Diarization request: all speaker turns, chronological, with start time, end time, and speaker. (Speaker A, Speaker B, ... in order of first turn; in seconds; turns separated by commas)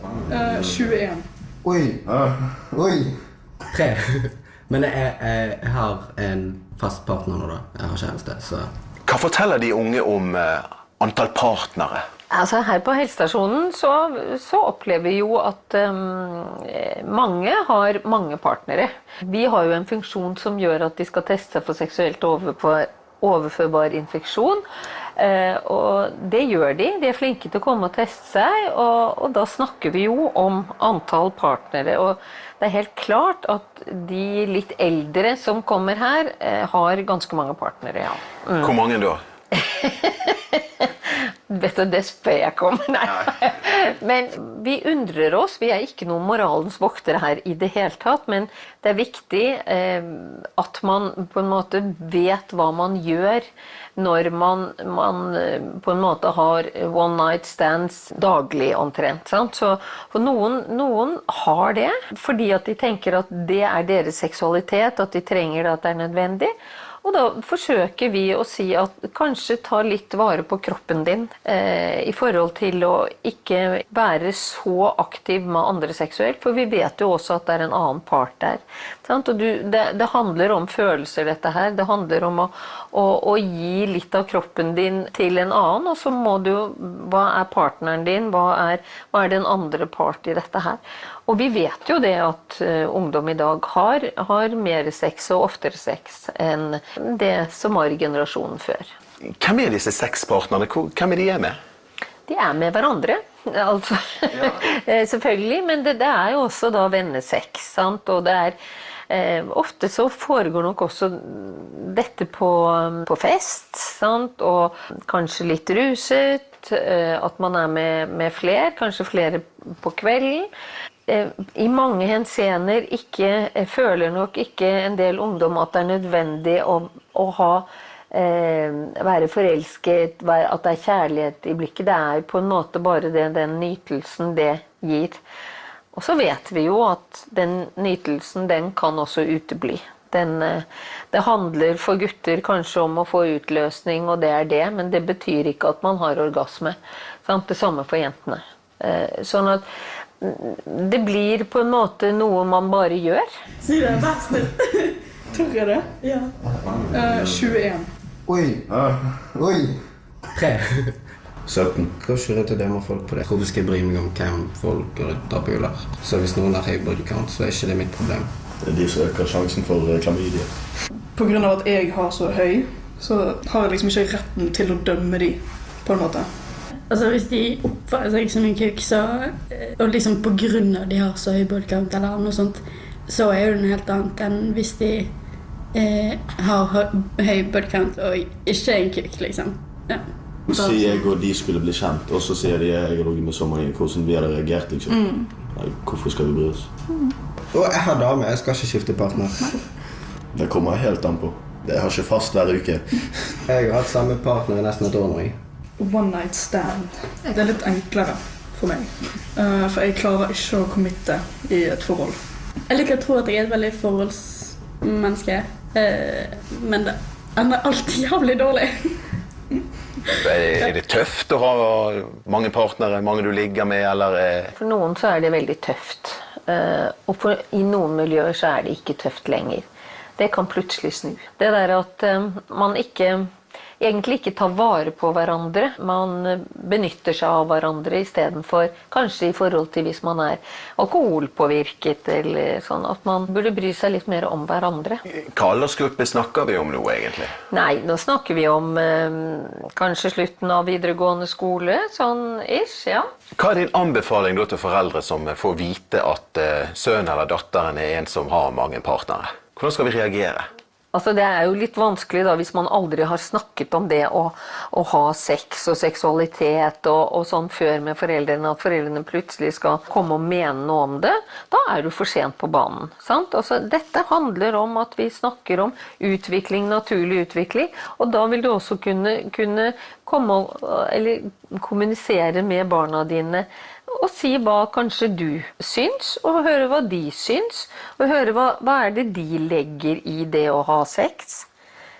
Speaker A: 0.2-1.3, Speaker B: 1.6-3.1, Speaker C: 3.7-8.7, Speaker D: 9.0-12.0, Speaker E: 12.3-24.6, Speaker E: 25.2-38.7, Speaker D: 38.6-39.2, Speaker E: 39.5-53.4, Speaker E: 54.0-98.9, Speaker D: 99.4-101.6, Speaker E: 102.3-108.6, Speaker E: 109.1-120.5, Speaker E: 121.1-135.2, Speaker E: 135.9-149.6, Speaker E: 150.2-153.3, Speaker F: 153.6-155.0, Speaker A: 155.3-155.9, Speaker F: 156.0-156.4, Speaker A: 156.9-157.9, Speaker B: 158.3-159.7, Speaker G: 158.7-159.3, Speaker C: 160.3-161.0, Speaker G: 161.4-161.9, Speaker C: 162.0-168.3, Speaker G: 168.6-170.6, Speaker A: 171.1-176.3, Speaker F: 176.9-185.1, Speaker F: 185.7-191.0, Speaker G: 190.5-196.7, Speaker A: 194.9-195.3, Speaker C: 197.5-199.6, Speaker G: 200.3-203.3, Speaker C: 203.4-205.4, Speaker A: 205.8-212.2, Speaker F: 212.7-219.2, Speaker D: 220.2-224.5, Speaker E: 224.6-229.6, Speaker E: 230.2-233.3, Speaker E: 233.8-245.0, Speaker D: 245.3-247.3, Speaker E: 247.5-253.1, Speaker D: 253.3-260.5, Speaker E: 260.9-291.5